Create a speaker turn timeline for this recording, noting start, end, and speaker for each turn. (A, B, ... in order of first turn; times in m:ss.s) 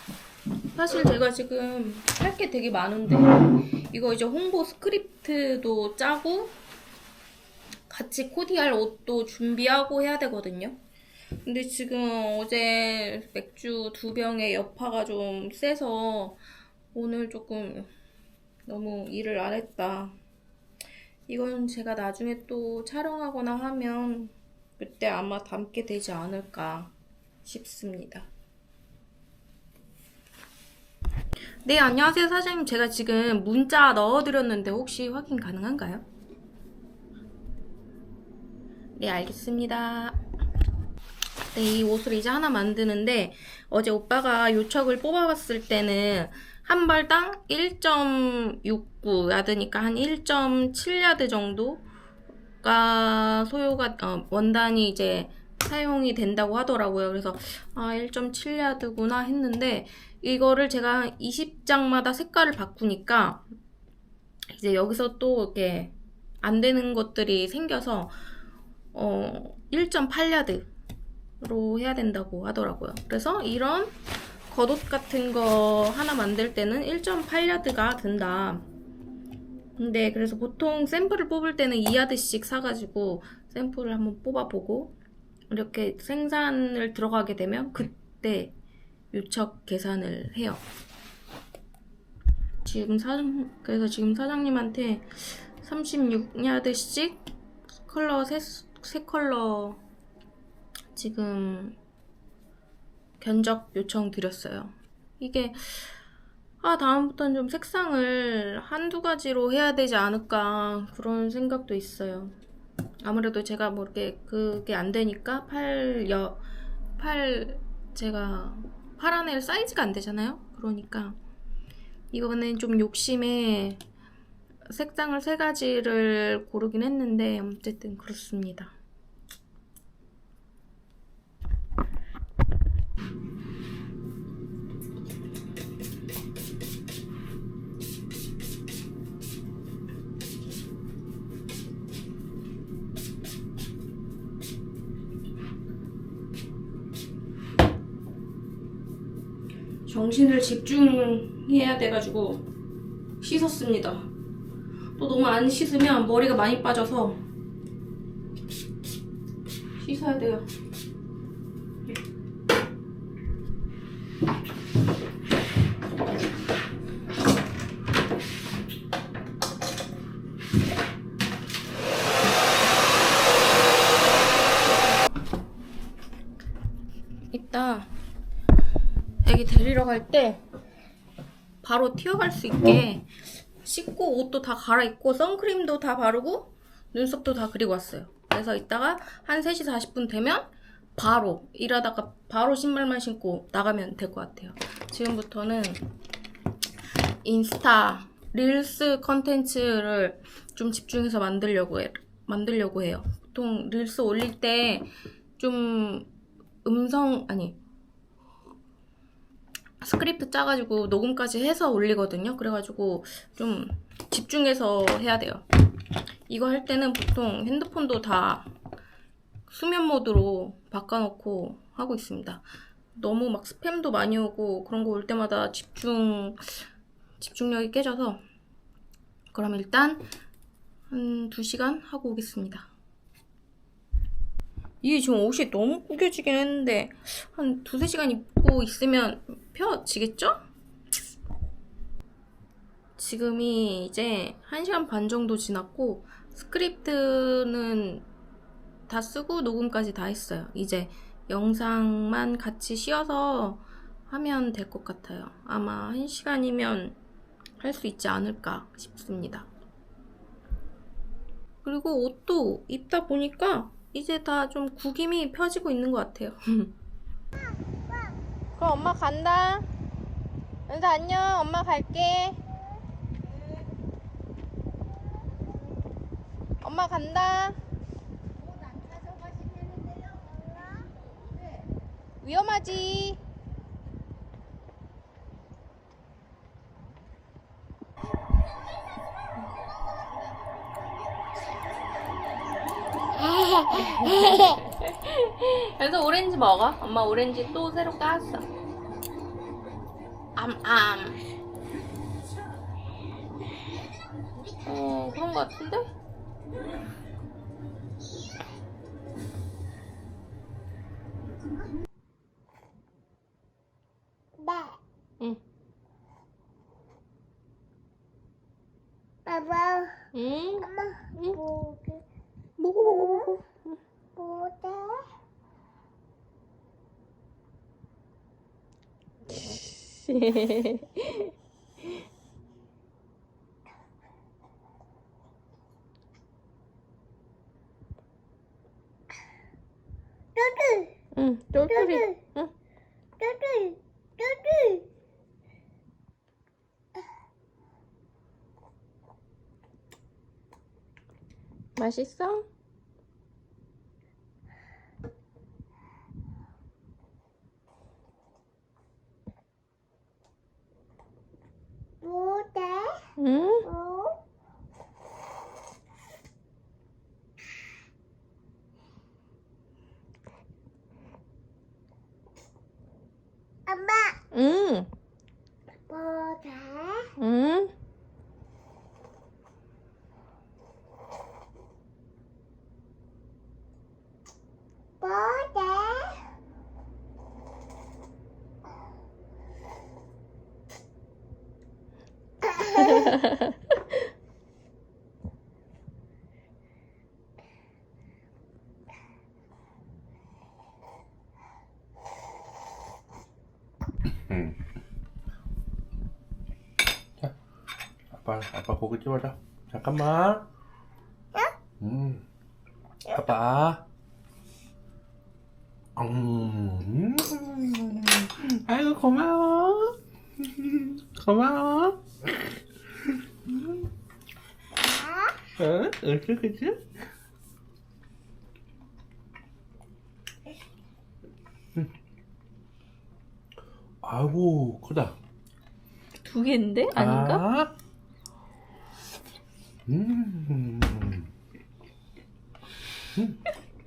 0:00.7-0:06.6 A
0:07.9-0:10.8 A
0:11.4-0:16.4 A
0:16.9-0:17.9 A
0:18.7-0:20.2 A
0:21.3-0:26.9 A
0:27.4-0:28.3 A
0:31.6-0:36.0 A
0:39.0-0:40.2 A
0:41.5-0:51.8 A
0:52.6-1:03.4 A
1:04.5-1:08.2 A
1:08.9-1:10.7 A
1:11.4-1:18.7 A
1:19.8-1:25.0 A
1:25.5-1:28.6 A
1:29.1-1:30.6 A
1:32.6-1:37.2 A
1:37.9-1:39.8 A
1:40.9-1:41.8 A
1:43.2-1:45.9 A
1:46.6-1:52.4 A
1:53.0-1:56.4 A
1:57.0-2:01.2 A
2:02.1-2:03.8 A
2:04.7-2:08.7 A
2:29.9-2:32.5 A
2:33.2-2:34.1 A
2:35.0-2:37.2 A
2:39.8-2:40.5 A
2:57.3-2:57.9 A
2:59.2-3:00.4 A
3:01.6-3:03.1 A
3:03.6-3:15.8 A
3:17.2-3:26.1 A
3:26.6-3:27.6 A
3:29.8-3:35.4 A
3:36.3-3:38.5 A
3:39.5-3:46.6 A
3:47.2-3:48.2 A
3:49.3-3:50.1 A
3:50.9-3:52.7 A
3:54.8-4:00.4 A
4:03.0-4:08.1 A
4:08.9-4:17.0 A
4:17.6-4:19.5 A
4:21.6-4:26.7 A
4:28.6-4:29.7 A
4:30.7-4:32.4 A
4:36.6-4:37.6 A
4:42.2-4:43.2 A
4:53.4-4:54.2 B
4:53.8-4:58.5 A
5:00.4-5:01.2 A
5:04.6-5:05.9 A
5:14.4-5:14.8 B
5:19.3-5:20.1 B
5:20.1-5:21.4 A
5:20.6-5:22.0 B
5:22.6-5:23.5 A
5:22.8-5:23.4 B
5:24.2-5:25.1 B
5:29.7-5:31.3 A
5:40.4-5:41.0 B
5:41.2-5:42.5 A
5:41.7-5:42.2 B
5:43.2-5:44.8 B
5:51.8-5:52.4 A
6:02.0-6:03.0 B
6:03.2-6:03.7 A
6:03.6-6:04.2 B
6:13.7-6:14.2 B
6:14.3-6:14.9 A
6:15.9-6:17.1 B
6:17.2-6:17.7 A
6:25.0-6:26.2 B
6:32.4-6:33.2 B
6:33.1-6:33.4 A
6:44.1-6:44.6 C
6:48.1-6:50.5 C
6:51.8-6:52.2 C
6:53.1-6:53.8 C
6:56.0-7:03.9 C
7:04.9-7:05.4 B
7:05.6-7:06.9 C
7:14.0-7:15.2 C
7:16.2-7:17.4 A
7:16.9-7:17.7 C
7:19.9-7:21.3 C
7:23.2-7:23.4 C